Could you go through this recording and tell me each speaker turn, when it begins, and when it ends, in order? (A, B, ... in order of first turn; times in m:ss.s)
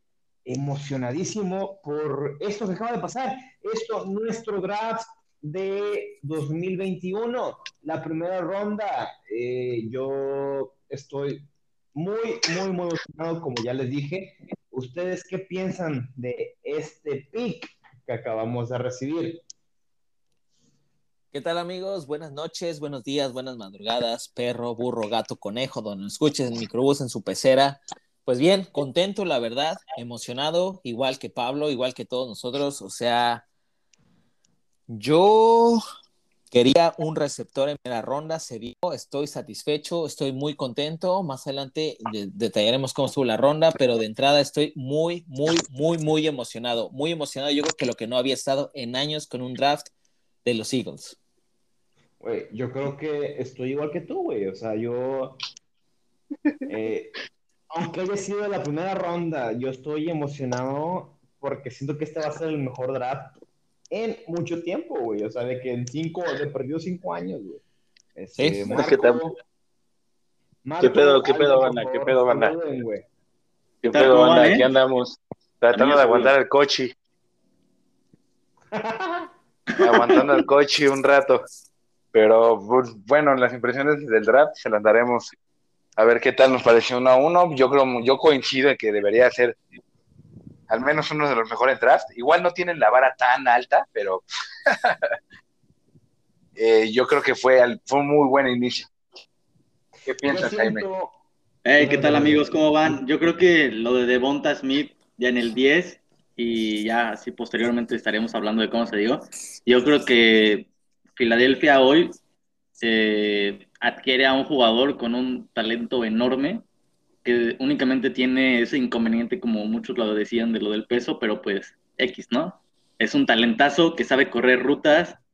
0:00.4-0:19.4 A
0:21.3-0:33.4 B
0:34.9-0:35.8 B
0:36.5-0:49.9 B
0:50.4-0:51.2 B
0:52.2-0:55.4 A
0:56.7-0:57.1 A
0:57.7-1:03.3 A
1:03.9-1:07.6 A
1:08.1-1:09.4 A
1:08.4-1:08.6 B
1:08.7-1:09.3 C
1:10.6-1:13.0 A
1:10.8-1:12.5 C
1:13.8-1:16.9 C
1:13.9-1:14.7 D
1:15.7-1:16.3 D
1:18.7-1:19.3 A
1:19.7-1:20.3 D
1:19.8-1:21.4 C
1:22.1-1:25.3 C
1:26.0-1:29.6 C
1:30.7-1:35.0 C
1:36.6-1:38.9 C
1:40.0-1:40.8 C
1:40.2-1:41.1 A
1:41.6-1:52.2 D
1:41.8-1:43.0 A
1:52.8-1:56.6 D
1:57.2-2:05.2 D